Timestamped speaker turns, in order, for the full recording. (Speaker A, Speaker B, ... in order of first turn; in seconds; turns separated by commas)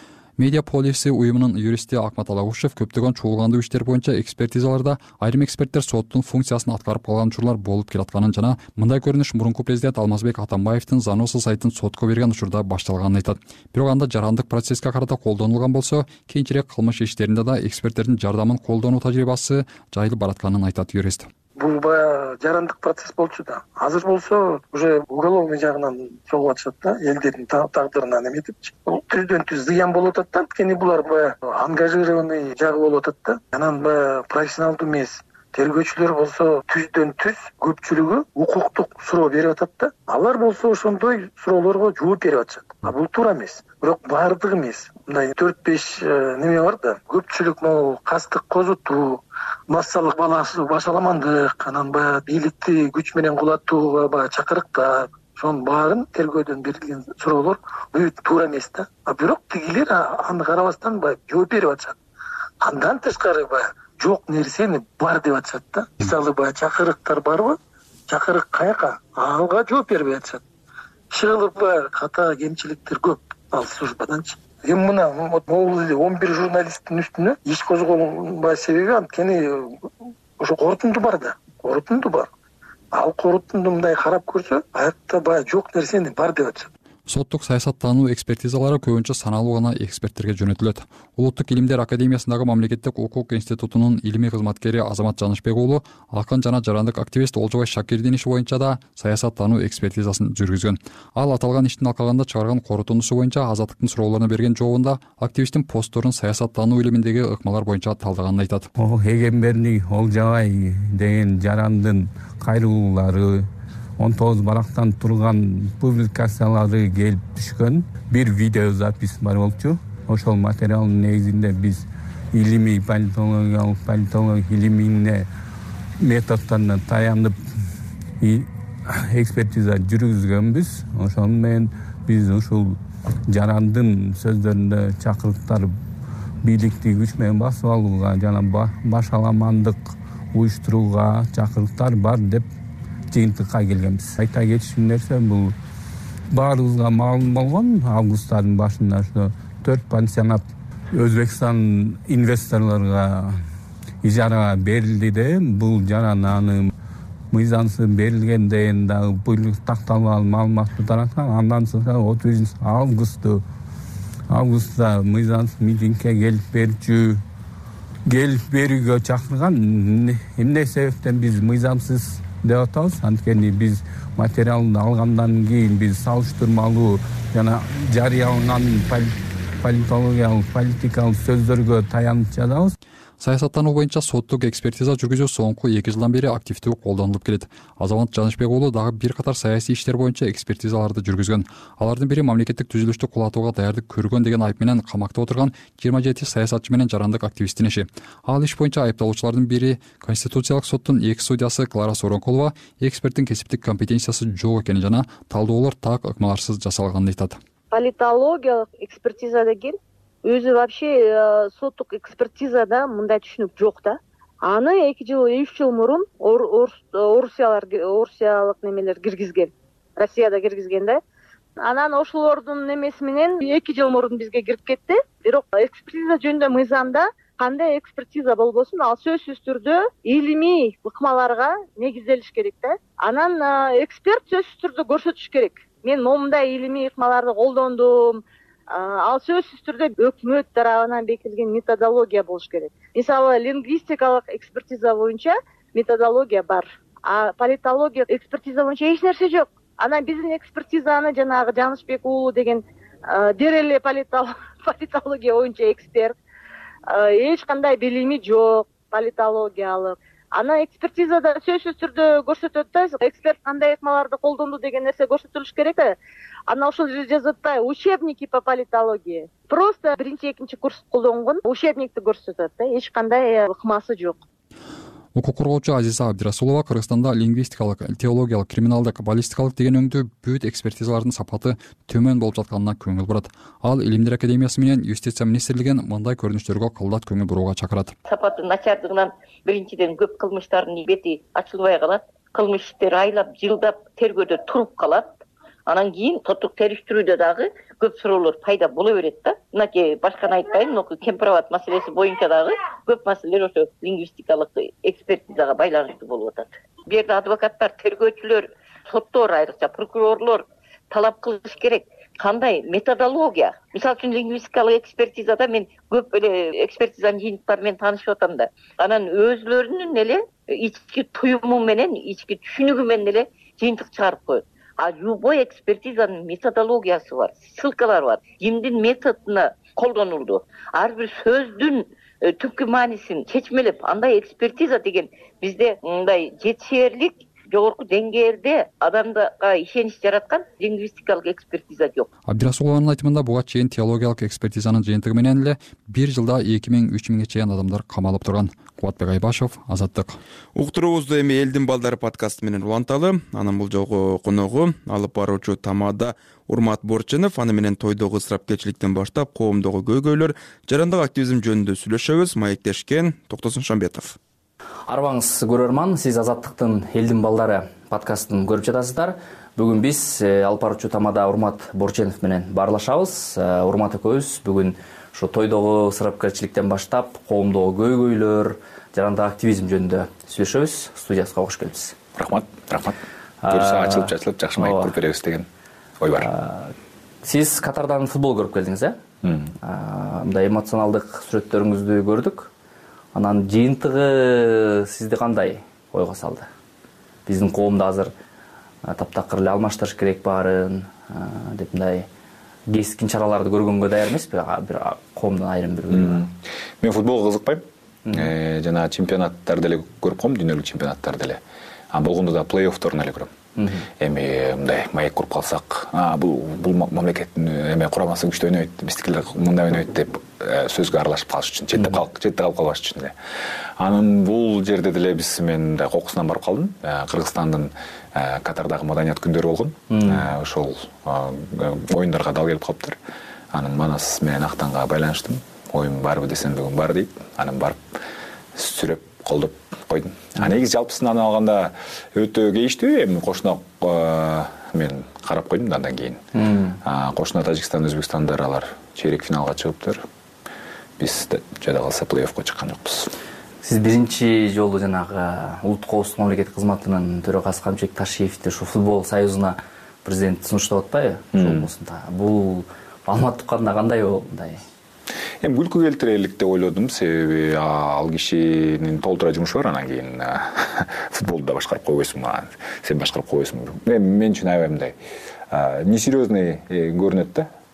Speaker A: 0.4-21.3, Speaker B: 21.6-62.0, Speaker B: 62.6-67.6, Speaker B: 68.1-70.4, Speaker B: 71.1-79.9, Speaker B: 80.4-82.3, Speaker B: 82.9-86.7, Speaker A: 87.1-108.7, Speaker C: 108.8-125.3, Speaker C: 126.0-127.4, Speaker C: 128.2-135.7, Speaker C: 136.4-139.8, Speaker C: 140.3-142.5, Speaker C: 143.1-145.6, Speaker C: 146.3-153.4, Speaker C: 154.0-156.7, Speaker C: 157.3-163.4, Speaker C: 164.3-167.2, Speaker C: 168.1-182.8, Speaker A: 183.2-207.4, Speaker D: 207.7-221.0, Speaker D: 221.6-256.1, Speaker D: 256.9-266.0, Speaker D: 266.5-274.2, Speaker A: 275.1-287.9, Speaker E: 288.1-342.1, Speaker A: 342.3-350.2, Speaker F: 350.6-364.2, Speaker G: 364.9-382.0, Speaker H: 382.2-383.0, Speaker G: 383.4-384.9, Speaker H: 383.5-385.5, Speaker H: 386.0-386.3, Speaker G: 386.2-389.0, Speaker H: 389.2-389.5, Speaker G: 389.6-392.5, Speaker G: 393.1-396.5, Speaker G: 397.3-398.1, Speaker G: 398.9-402.1, Speaker G: 402.7-406.2, Speaker H: 405.9-411.4, Speaker G: 408.1-408.3, Speaker H: 411.9-413.3, Speaker G: 413.6-413.9, Speaker H: 414.0-423.1, Speaker H: 423.8-433.0, Speaker G: 429.9-430.3, Speaker H: 433.5-438.0, Speaker H: 438.6-446.2, Speaker G: 446.4-446.8, Speaker H: 446.8-450.0, Speaker H: 451.0-453.1, Speaker G: 453.6-464.6, Speaker H: 461.4-461.7, Speaker H: 465.4-474.9, Speaker H: 475.5-477.5